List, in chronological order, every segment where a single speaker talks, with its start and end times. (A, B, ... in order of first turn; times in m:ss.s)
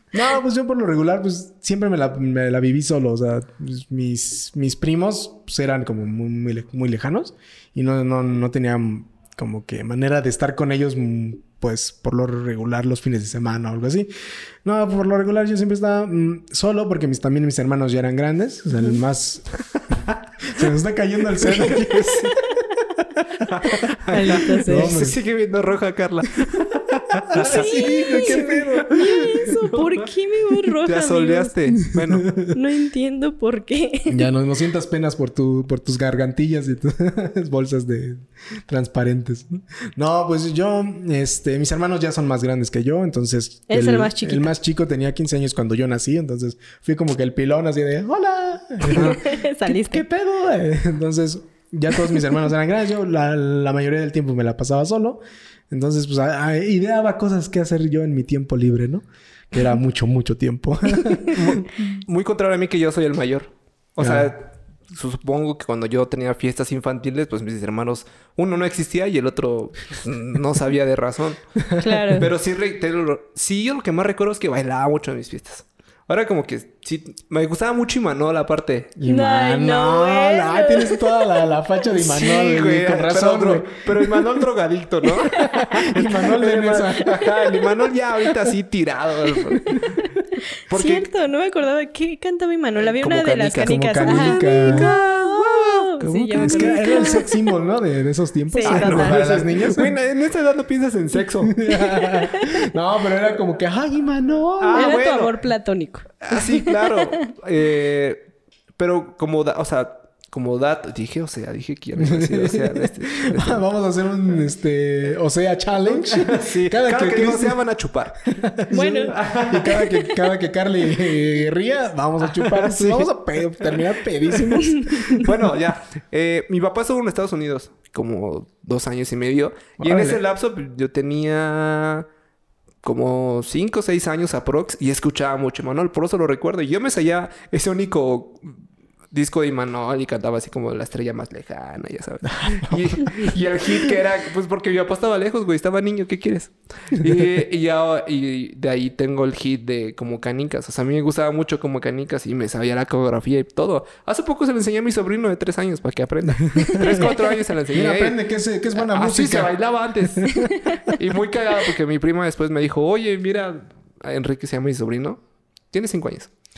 0:00.1-0:14.1 A
0:14.6-0:19.5 A
0:20.1-0:20.6 B
0:20.5-0:22.6 A
0:21.4-0:22.4 B
0:23.4-0:30.0 B
0:24.1-0:25.0 C
0:24.6-0:25.2 A
0:27.3-0:29.5 A
0:27.4-0:31.5 C
0:30.8-0:32.3 B
0:31.9-0:32.5 A
0:32.5-0:34.2 C
0:34.1-1:01.7 A
0:43.7-0:44.5 C
0:48.8-0:50.0 C
0:48.9-0:49.2 B
1:01.0-1:01.3 C
1:01.3-1:11.4 B
1:04.0-1:04.3 A
1:11.7-1:12.3 A
1:11.8-1:12.3 C
1:12.2-1:19.0 B
1:19.0-1:24.4 A
1:19.0-1:21.4 C
1:22.0-1:30.1 B
1:25.3-1:25.7 C
1:25.6-1:27.7 A
1:30.7-1:31.1 B
1:30.7-1:37.3 C
1:32.9-1:37.3 B
1:33.6-1:34.9 A
1:36.3-1:39.9 A
1:38.5-1:39.3 C
1:38.6-1:41.6 B
1:41.5-1:45.0 A
1:41.8-1:42.5 C
1:44.6-1:45.3 B
1:44.8-1:47.1 C
1:46.2-1:48.2 B
1:48.8-1:53.6 B
1:52.0-1:57.6 A
1:55.9-2:00.0 B
1:58.3-2:05.3 A
1:58.7-1:59.2 C
2:02.3-2:03.1 B
2:03.6-2:12.1 B
2:04.6-2:05.2 C
2:09.8-2:10.2 A
2:12.8-2:18.6 B
2:19.1-2:38.2 B
2:22.3-2:24.0 A
2:36.5-2:37.1 A
2:36.6-2:36.8 C
2:37.7-2:39.5 A
2:38.8-2:45.2 B
2:40.1-2:40.8 A
2:45.7-2:46.3 B